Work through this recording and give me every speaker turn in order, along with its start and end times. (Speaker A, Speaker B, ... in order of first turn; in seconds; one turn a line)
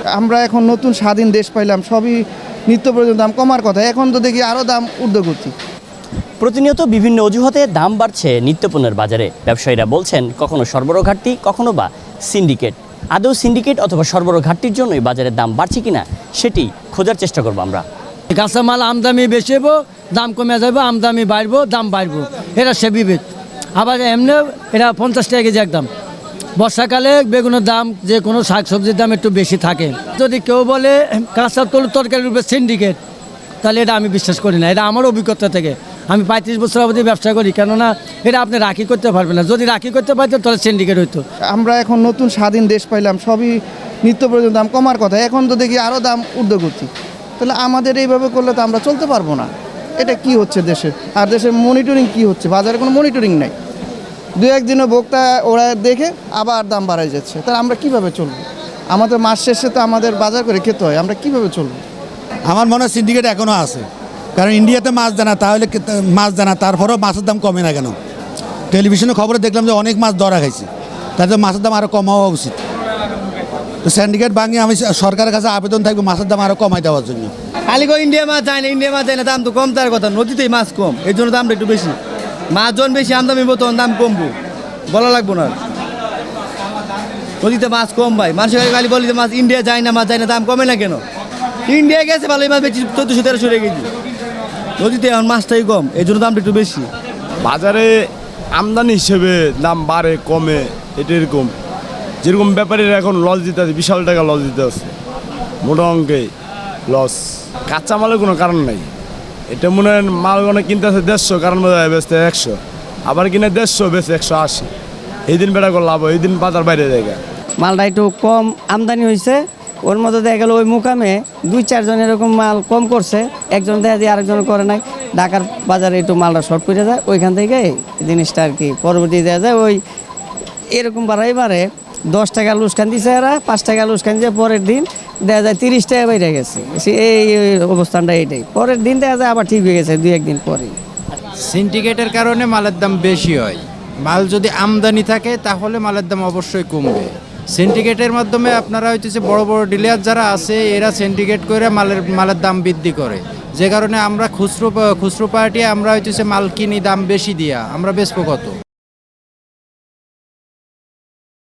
Speaker A: 0.1-5.5
Speaker B: 6.4-17.8
Speaker C: 18.3-23.2
Speaker C: 23.8-25.9
Speaker C: 26.6-33.0
Speaker C: 33.6-41.2
Speaker A: 41.5-53.5
Speaker A: 54.4-61.8
Speaker D: 62.5-63.8
Speaker D: 64.3-68.0
Speaker D: 68.7-72.6
Speaker D: 73.8-77.3
Speaker E: 77.7-82.0
Speaker E: 82.5-84.3
Speaker E: 84.9-85.5
Speaker E: 87.4-91.0
Speaker E: 91.7-93.9
Speaker E: 94.8-96.9
Speaker F: 97.4-101.5
Speaker F: 102.2-104.9
Speaker F: 105.6-106.3
Speaker F: 106.9-108.9
Speaker F: 109.5-114.7
Speaker F: 115.3-117.2
Speaker G: 117.6-129.8
Speaker G: 130.8-140.7
Speaker H: 141.4-158.5